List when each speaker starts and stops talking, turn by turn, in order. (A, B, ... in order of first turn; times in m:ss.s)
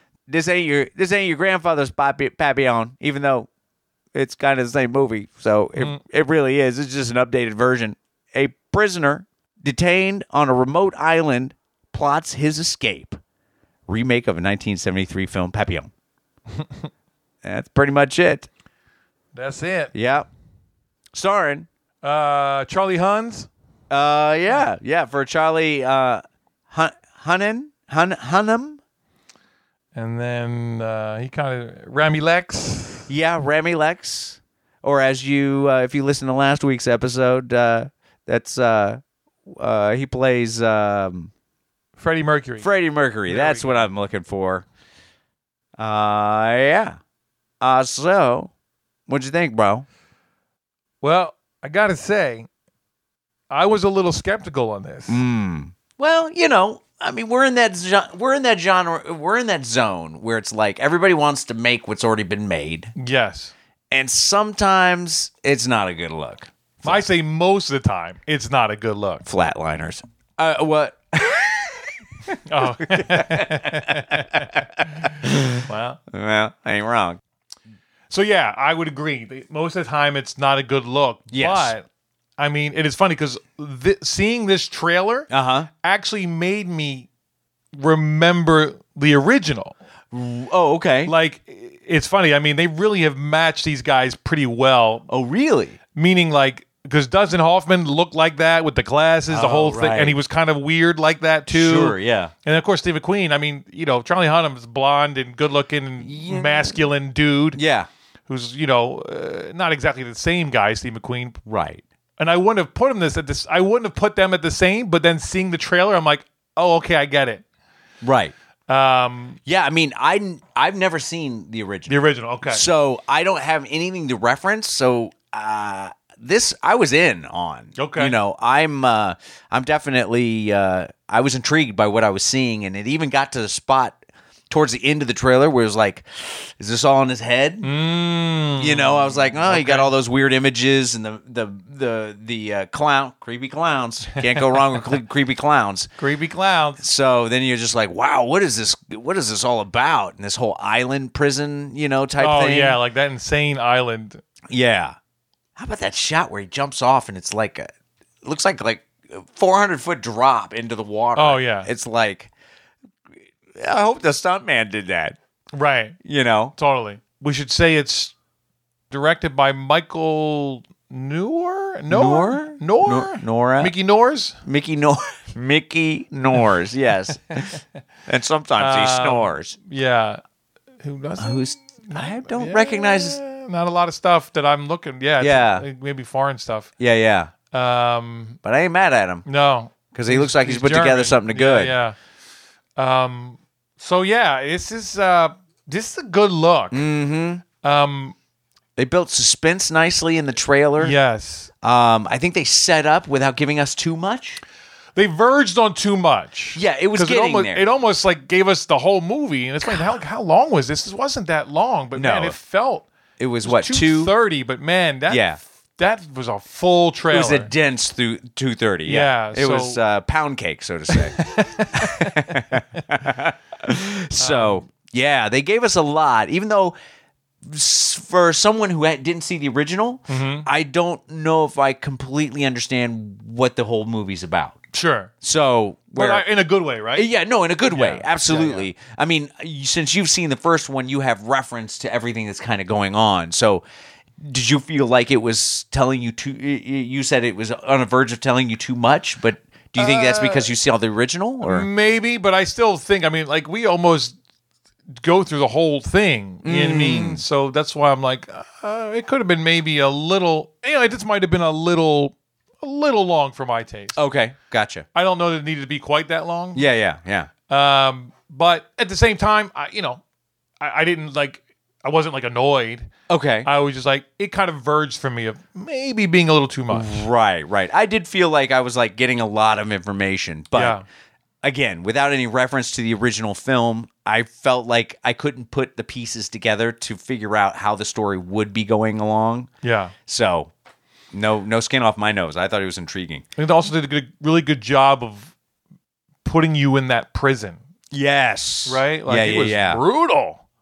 0:00.3-0:03.5 A
0:04.1-0:13.2 A
0:13.9-0:15.9 A
0:17.4-0:18.5 A
0:19.3-0:19.9 B
0:19.9-0:20.3 A
0:21.1-0:21.7 A
0:22.0-0:23.5 B
0:23.9-0:28.8 A
0:29.9-0:33.1 B
0:33.1-0:41.3 A
0:42.0-0:42.7 B
0:42.6-0:44.6 A
0:43.3-0:43.8 B
0:45.8-0:47.0 A
0:47.6-0:48.5 A
0:49.1-0:49.8 A
0:51.0-0:52.5 B
0:53.5-0:55.2 B
0:55.1-1:02.9 A
1:03.0-1:03.5 B
1:03.9-1:07.0 A
1:06.8-1:09.2 B
1:09.2-1:11.9 A
1:12.4-1:15.1 B
1:12.6-1:17.2 A
1:15.6-1:16.0 B
1:18.1-1:21.8 B
1:21.3-1:21.7 A
1:22.4-1:25.3 B
1:25.3-1:25.7 A
1:25.8-1:27.1 B
1:27.7-1:29.8 B
1:30.1-1:31.1 A
1:31.0-1:35.0 B
1:35.1-1:35.8 A
1:35.9-1:47.6 B
1:39.3-1:40.2 A
1:41.5-1:42.3 A
1:46.0-1:46.8 A
1:47.5-1:47.9 A
1:48.3-1:51.4 B
1:51.4-1:51.8 A
1:52.2-1:57.4 B
1:58.0-1:58.3 A
1:58.7-1:59.4 B
1:59.4-2:02.0 A
2:01.9-2:02.6 B
2:02.5-2:14.0 A
2:07.8-2:08.1 B
2:14.5-2:17.7 A
2:17.6-2:19.9 B
2:18.6-2:25.9 A
2:26.0-2:26.8 B
2:26.8-2:32.8 A
2:32.2-2:34.2 B
2:34.5-2:35.0 A
2:35.6-2:37.7 A
2:38.2-2:42.3 A
2:41.2-2:41.7 B
2:43.5-2:45.2 A
2:45.5-2:46.0 B
2:46.0-2:46.5 A
2:46.6-2:48.1 B
2:48.9-2:54.4 B
2:51.9-2:53.7 A
2:54.4-2:59.5 A
2:58.6-3:00.2 B
3:00.8-3:06.7 B
3:01.2-3:03.2 A
3:05.2-3:05.7 A
3:06.8-3:07.3 A
3:07.5-3:08.4 B
3:08.4-3:09.2 A
3:09.2-3:12.0 B
3:09.9-3:11.7 A
3:12.8-3:16.9 B
3:16.7-3:17.4 A
3:17.6-3:18.1 B
3:18.8-3:20.9 A
3:20.8-3:21.5 B
3:21.6-3:24.4 A
3:25.0-3:32.9 B
3:26.5-3:27.6 A
3:31.9-3:32.4 A
3:33.2-3:34.1 A
3:33.4-3:37.5 B
3:35.1-3:35.4 A
3:37.1-3:46.7 A
3:38.8-3:39.8 B
3:40.9-3:42.8 B
3:44.2-3:44.6 B
3:47.4-3:54.6 A
3:50.1-3:50.5 B
3:54.7-3:55.1 B
3:55.2-3:56.2 A
3:55.9-3:57.1 B
3:56.9-4:03.6 A
3:57.7-3:58.7 B
4:04.2-4:11.7 A
4:09.8-4:10.5 B
4:11.4-4:14.1 B
4:15.0-4:24.0 B
4:16.4-4:17.2 A
4:24.0-4:24.8 A
4:24.9-4:26.6 B
4:26.5-4:27.3 A
4:27.5-4:30.0 B
4:30.6-4:32.9 B
4:33.1-4:33.5 A
4:33.4-4:37.0 B
4:36.7-4:40.8 A
4:40.5-4:40.8 B
4:41.4-4:49.5 A
4:49.6-4:49.9 B
4:50.1-4:50.5 A
4:51.1-4:53.2 A
4:53.4-4:55.3 B
4:56.2-4:57.6 B
4:57.9-4:59.8 A
4:58.6-5:00.4 B